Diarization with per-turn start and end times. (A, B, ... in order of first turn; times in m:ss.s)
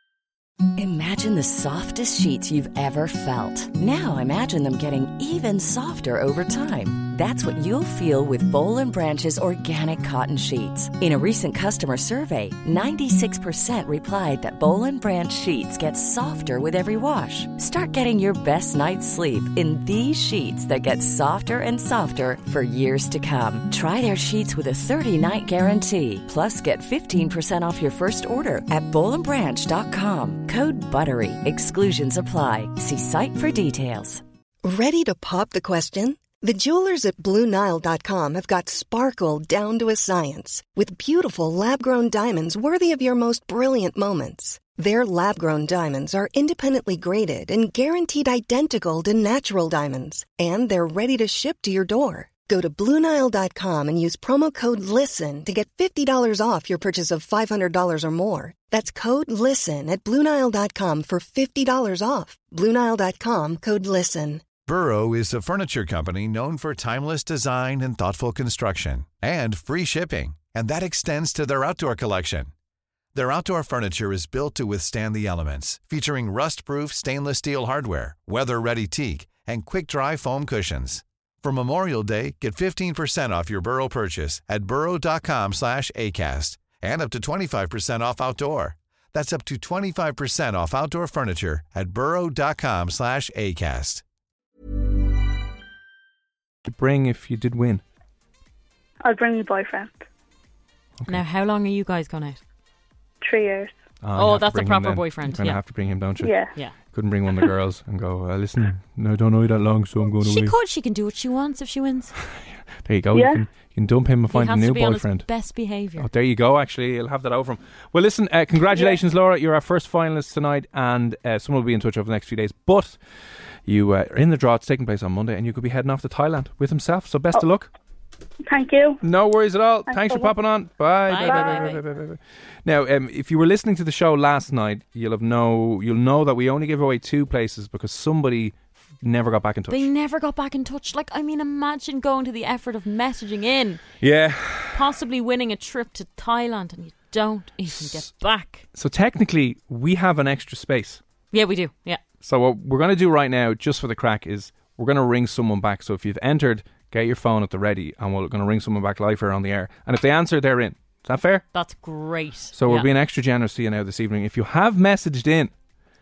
0:00.8-0:34.2 A
0:34.6-1:04.4 B
1:04.7-1:12.5 C
1:13.1-1:34.0 C
1:36.7-1:37.8 D
1:39.0-1:40.0 E
1:41.1-1:42.4 F
1:43.2-1:43.7 E
1:44.0-1:50.5 D
1:44.2-1:45.6 F
1:46.2-1:46.5 E
1:50.2-1:52.1 F
1:52.3-1:55.3 D
1:53.1-1:53.4 E
1:54.3-1:56.1 F
1:56.0-2:03.0 D
2:03.7-2:07.7 D
2:08.5-2:09.0 E
2:09.0-2:19.9 D
2:09.9-2:10.3 E
2:11.1-2:11.8 F
2:19.7-2:23.9 F
2:24.0-2:24.8 D
2:24.7-2:28.7 F
2:28.8-2:31.0 D
2:31.3-2:32.0 F
2:32.2-2:41.5 D
2:41.5-2:42.9 F
2:42.5-2:45.5 D